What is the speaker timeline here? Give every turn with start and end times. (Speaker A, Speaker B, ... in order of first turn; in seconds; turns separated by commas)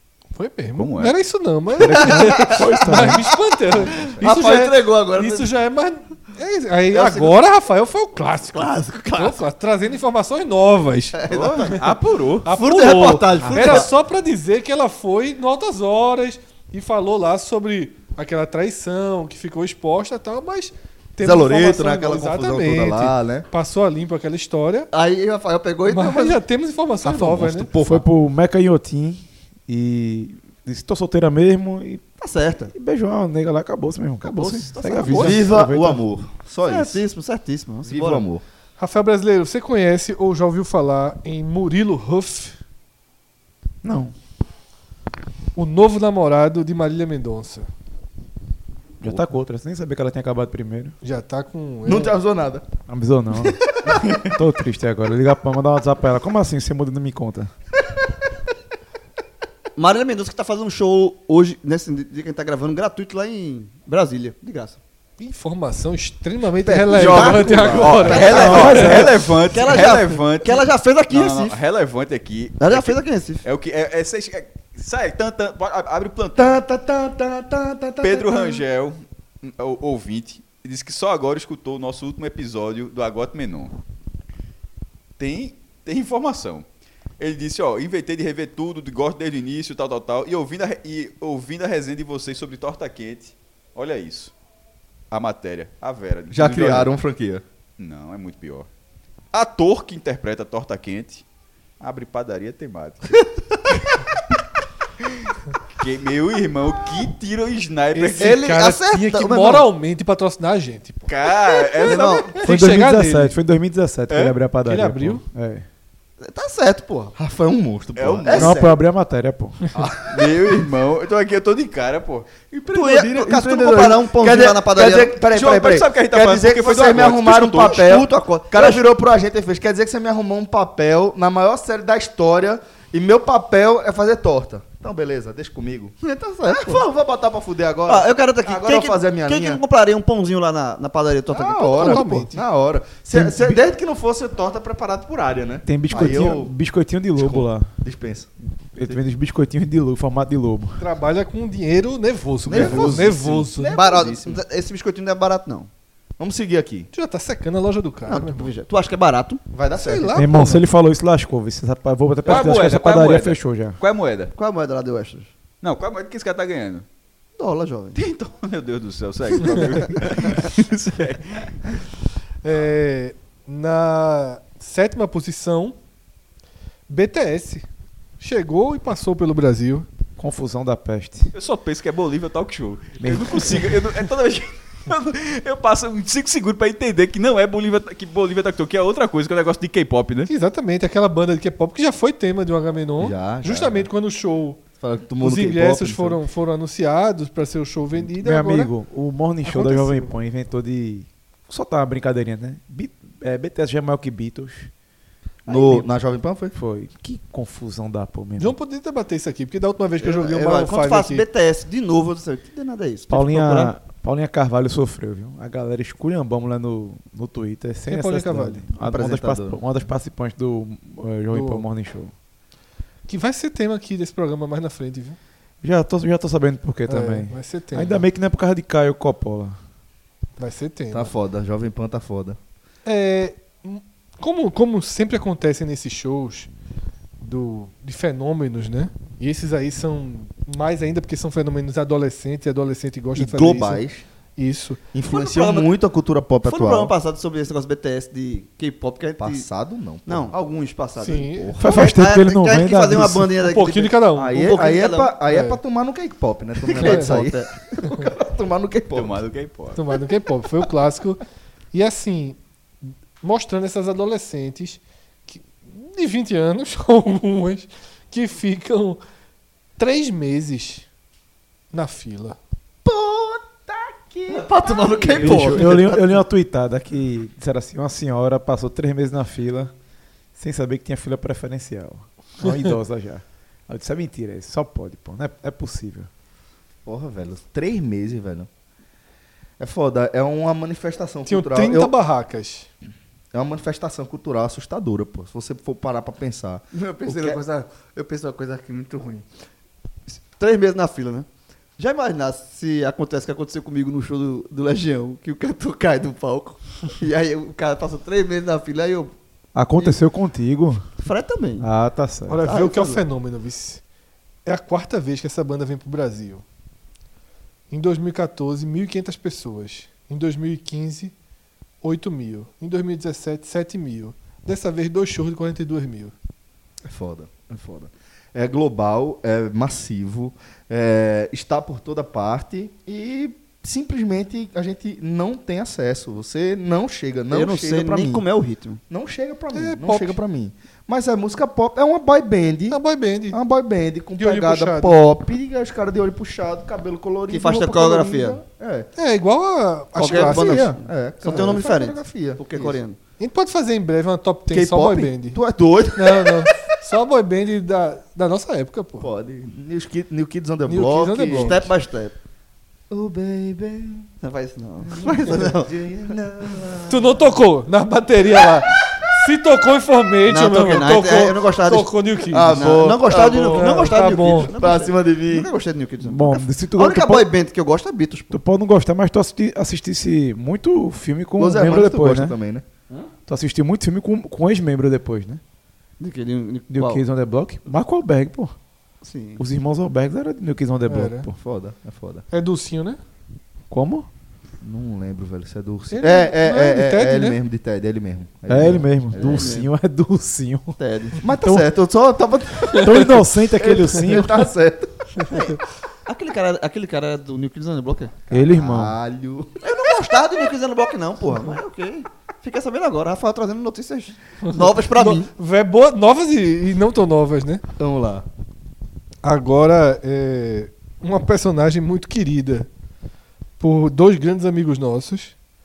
Speaker A: 0.3-11.8, Speaker B: 0.8-1.1, Speaker C: 1.8-3.2, Speaker D: 2.0-3.1, Speaker E: 3.8-4.3, Speaker D: 4.2-5.5, Speaker D: 6.9-7.4, Speaker D: 8.5-9.4, Speaker D: 11.1-11.8, Speaker B: 11.3-12.5, Speaker A: 12.4-24.9, Speaker D: 12.5-13.9, Speaker E: 21.2-23.4, Speaker D: 24.9-26.4, Speaker A: 25.9-27.7, Speaker E: 27.0-28.1, Speaker C: 27.8-32.0, Speaker D: 32.2-32.7, Speaker C: 32.7-36.0, Speaker D: 34.2-35.5, Speaker E: 35.1-37.0, Speaker D: 36.6-38.2, Speaker E: 37.8-38.4, Speaker A: 38.8-42.5, Speaker C: 43.8-44.1, Speaker A: 45.5-47.7, Speaker C: 49.0-50.9, Speaker A: 51.0-52.1, Speaker E: 51.8-52.6, Speaker C: 52.9-53.6, Speaker E: 53.9-54.2, Speaker C: 54.3-57.5, Speaker D: 59.8-64.8, Speaker A: 65.2-68.9, Speaker E: 66.7-68.5, Speaker D: 66.9-71.6, Speaker B: 66.9-76.6, Speaker C: 68.3-69.1, Speaker D: 72.6-73.4, Speaker E: 76.3-78.6, Speaker B: 78.0-83.7, Speaker B: 85.2-86.6, Speaker B: 87.2-94.3, Speaker B: 95.1-96.9, Speaker E: 96.3-97.4, Speaker B: 97.8-98.7, Speaker B: 99.3-101.2, Speaker B: 101.8-103.8, Speaker B: 105.8-108.4, Speaker A: 107.9-111.1, Speaker D: 108.2-109.7, Speaker B: 111.1-112.4, Speaker D: 111.8-112.4, Speaker A: 112.4-113.4, Speaker C: 112.4-115.6, Speaker B: 114.1-114.3, Speaker A: 114.6-115.2, Speaker D: 116.2-117.1, Speaker E: 117.2-118.8, Speaker B: 118.0-118.6, Speaker C: 118.3-119.7, Speaker E: 119.8-120.5, Speaker B: 120.0-122.5, Speaker E: 122.5-135.9, Speaker D: 122.7-125.2, Speaker B: 125.3-127.8, Speaker D: 127.5-128.8, Speaker D: 136.0-136.8, Speaker E: 136.5-139.6, Speaker D: 137.9-142.1, Speaker E: 141.3-146.5, Speaker A: 141.8-142.4, Speaker D: 143.2-143.6, Speaker C: 145.7-147.7, Speaker E: 147.2-148.3, Speaker C: 148.7-150.8, Speaker A: 150.8-153.8, Speaker D: 152.5-153.2, Speaker E: 152.5-154.4, Speaker D: 153.7-155.7, Speaker E: 156.2-156.9, Speaker A: 156.9-158.5, Speaker D: 158.1-159.4, Speaker E: 159.5-160.2, Speaker A: 159.7-160.6, Speaker C: 160.1-163.8, Speaker B: 162.2-164.3, Speaker D: 164.3-165.3, Speaker B: 165.6-166.8, Speaker D: 167.4-168.0, Speaker B: 167.9-171.8, Speaker D: 169.4-170.5, Speaker A: 172.4-175.8, Speaker A: 176.9-177.6, Speaker A: 178.2-179.8, Speaker C: 180.2-181.3, Speaker B: 181.3-190.3, Speaker C: 183.0-183.8, Speaker A: 190.3-194.6, Speaker E: 193.0-193.9, Speaker E: 194.8-196.2, Speaker A: 195.2-198.7, Speaker C: 198.1-204.7, Speaker A: 199.4-200.1, Speaker E: 205.5-206.5, Speaker D: 205.5-205.8, Speaker C: 206.5-208.5, Speaker A: 208.4-211.2, Speaker D: 210.0-213.7, Speaker C: 213.1-222.1, Speaker A: 217.9-218.6, Speaker E: 218.8-219.6, Speaker A: 221.3-221.7, Speaker A: 223.1-225.2, Speaker C: 225.6-229.6, Speaker A: 226.9-228.1, Speaker A: 230.4-231.1, Speaker E: 230.9-232.4, Speaker A: 232.8-236.5, Speaker A: 237.2-243.8, Speaker E: 243.1-244.0, Speaker A: 244.4-244.8, Speaker E: 244.9-246.9, Speaker D: 245.1-245.7, Speaker D: 246.4-249.4, Speaker E: 249.2-250.3, Speaker D: 250.1-255.1, Speaker A: 251.0-251.5, Speaker E: 251.3-251.9, Speaker C: 251.6-253.3, Speaker A: 253.4-254.5, Speaker E: 254.2-259.2, Speaker A: 255.3-255.6, Speaker D: 256.6-257.5, Speaker A: 256.8-257.1, Speaker B: 258.9-259.8, Speaker A: 259.7-261.2, Speaker A: 261.7-262.4, Speaker A: 263.2-269.0, Speaker A: 269.8-270.9, Speaker A: 271.7-272.4, Speaker E: 272.8-275.7, Speaker D: 274.3-276.2, Speaker C: 275.1-279.7, Speaker C: 280.4-286.1, Speaker E: 286.9-288.5, Speaker E: 289.6-291.9, Speaker A: 291.2-292.7, Speaker E: 293.3-297.4, Speaker D: 296.7-299.2, Speaker D: 300.1-301.3, Speaker D: 301.8-309.1, Speaker C: 309.5-310.8, Speaker D: 311.0-311.7, Speaker C: 311.6-312.4, Speaker A: 312.3-313.8, Speaker D: 312.4-313.0, Speaker A: 314.4-316.4, Speaker A: 317.7-321.1, Speaker A: 321.8-326.1, Speaker E: 326.8-338.2, Speaker D: 337.3-338.8, Speaker E: 338.9-348.9, Speaker A: 339.5-340.2, Speaker A: 342.7-343.4, Speaker A: 344.2-345.1, Speaker D: 347.3-348.4, Speaker A: 348.9-350.7, Speaker D: 350.0-353.0, Speaker E: 350.0-352.8, Speaker A: 353.2-355.4, Speaker E: 354.5-356.5, Speaker A: 355.9-359.1, Speaker E: 359.0-361.7, Speaker A: 360.7-361.6, Speaker D: 361.3-362.1, Speaker E: 362.9-364.1, Speaker D: 364.2-365.9, Speaker E: 364.9-367.1, Speaker A: 366.9-372.6, Speaker D: 370.2-371.9, Speaker E: 372.3-375.5, Speaker D: 372.5-378.4, Speaker A: 373.5-374.5, Speaker C: 376.0-377.3, Speaker C: 378.3-382.3, Speaker E: 381.4-382.6, Speaker C: 383.3-385.4, Speaker D: 386.0-387.0, Speaker C: 386.7-388.5, Speaker D: 389.0-389.4, Speaker C: 389.4-391.4, Speaker A: 390.9-391.3, Speaker E: 391.4-392.2, Speaker A: 392.3-393.0, Speaker C: 393.7-394.1, Speaker E: 394.6-399.6, Speaker A: 395.9-397.4, Speaker C: 398.5-400.8, Speaker D: 399.1-399.7, Speaker D: 400.8-401.2, Speaker E: 401.2-405.3, Speaker C: 402.7-404.3, Speaker D: 405.3-408.2, Speaker C: 408.3-408.9, Speaker E: 408.3-409.5, Speaker D: 409.6-415.3, Speaker A: 414.5-417.6, Speaker E: 417.8-418.2, Speaker A: 419.2-422.7, Speaker A: 423.6-425.3